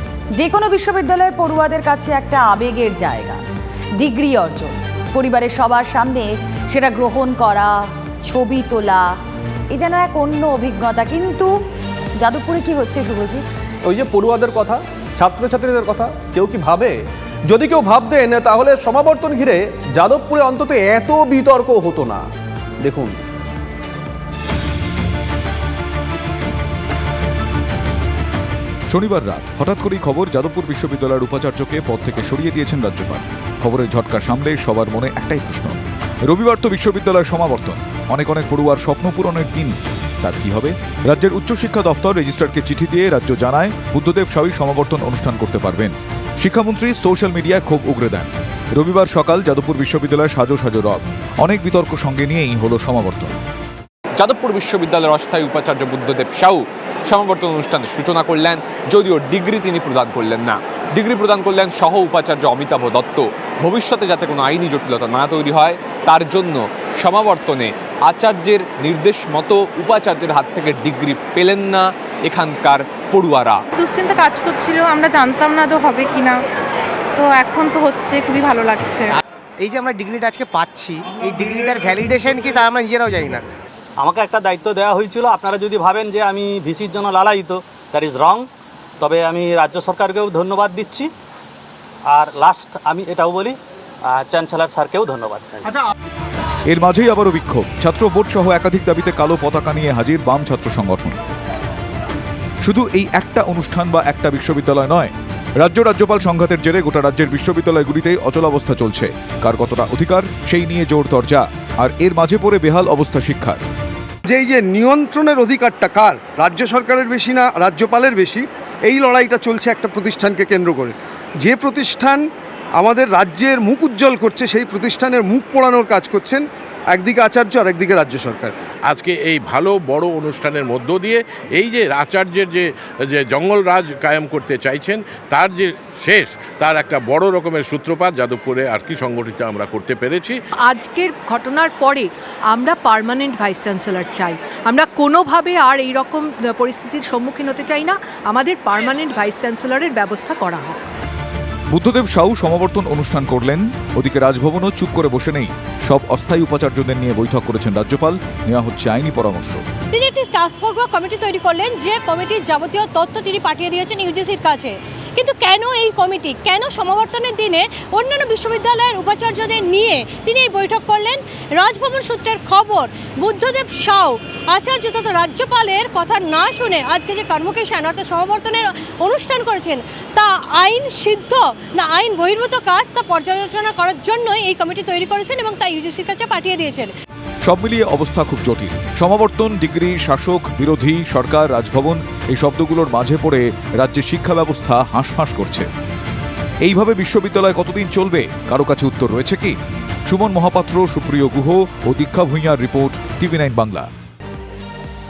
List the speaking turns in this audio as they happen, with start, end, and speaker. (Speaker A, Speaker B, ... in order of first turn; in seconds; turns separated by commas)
Speaker A: 0.4-3.4, Speaker A: 4.0-7.7, Speaker A: 8.3-9.1, Speaker A: 9.7-11.5, Speaker A: 12.2-13.4, Speaker B: 13.8-16.9, Speaker B: 17.5-22.3, Speaker B: 22.8-23.2, Speaker C: 28.9-53.4, Speaker D: 54.2-73.6, Speaker E: 73.8-76.4, Speaker E: 77.2-79.0, Speaker F: 79.6-83.4, Speaker G: 84.0-88.4, Speaker G: 89.0-91.0, Speaker G: 92.1-93.5, Speaker G: 94.3-95.0, Speaker C: 96.7-101.2, Speaker C: 102.7-113.6, Speaker H: 114.2-122.2, Speaker H: 122.8-128.6, Speaker I: 128.9-140.4, Speaker J: 140.7-150.8, Speaker C: 151.7-159.6, Speaker K: 159.9-186.9, Speaker C: 187.5-195.7, Speaker C: 196.6-199.6, Speaker C: 200.1-203.9